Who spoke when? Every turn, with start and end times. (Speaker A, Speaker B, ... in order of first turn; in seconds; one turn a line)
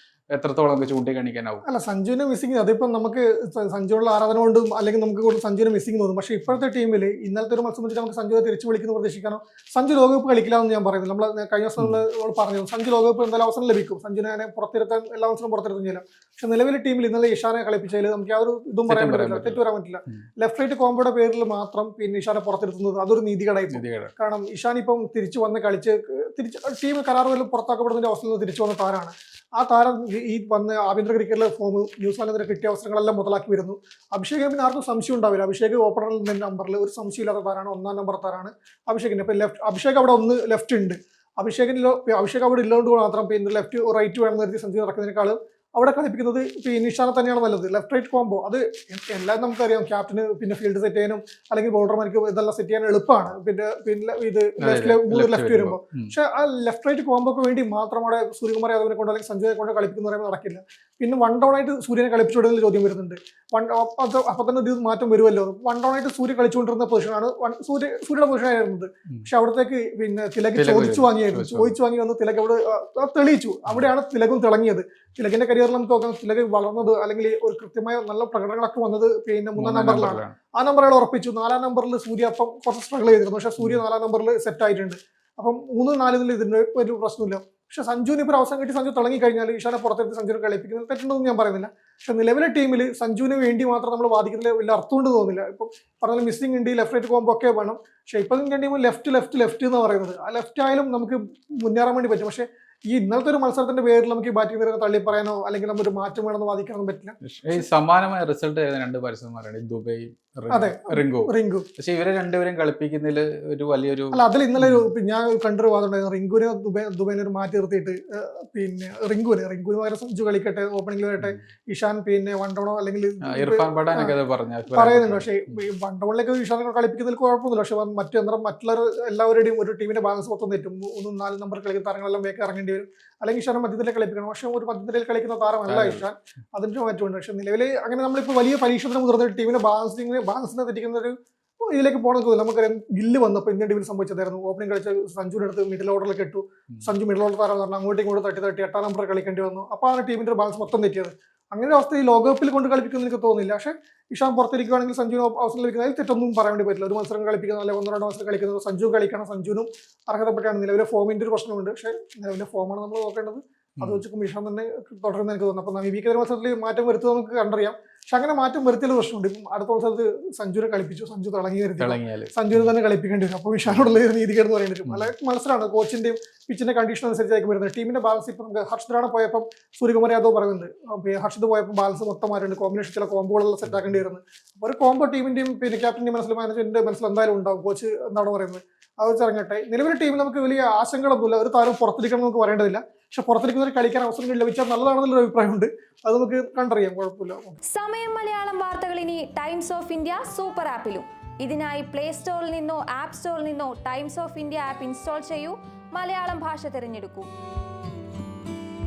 Speaker A: 0.3-1.6
Speaker B: 1.6-107.7
Speaker A: 18.9-20.2
Speaker A: 23.7-24.1
Speaker A: 54.6-56.1
Speaker A: 70.5-71.7
Speaker A: 79.6-80.3
Speaker A: 107.2-114.9
Speaker B: 110.5-111.7
Speaker B: 114.1-124.2
Speaker A: 123.2-125.3
Speaker B: 124.7-197.6
Speaker A: 135.7-136.1
Speaker A: 171.8-172.7
Speaker A: 174.9-175.1
Speaker A: 183.7-184.0
Speaker C: 197.7-207.3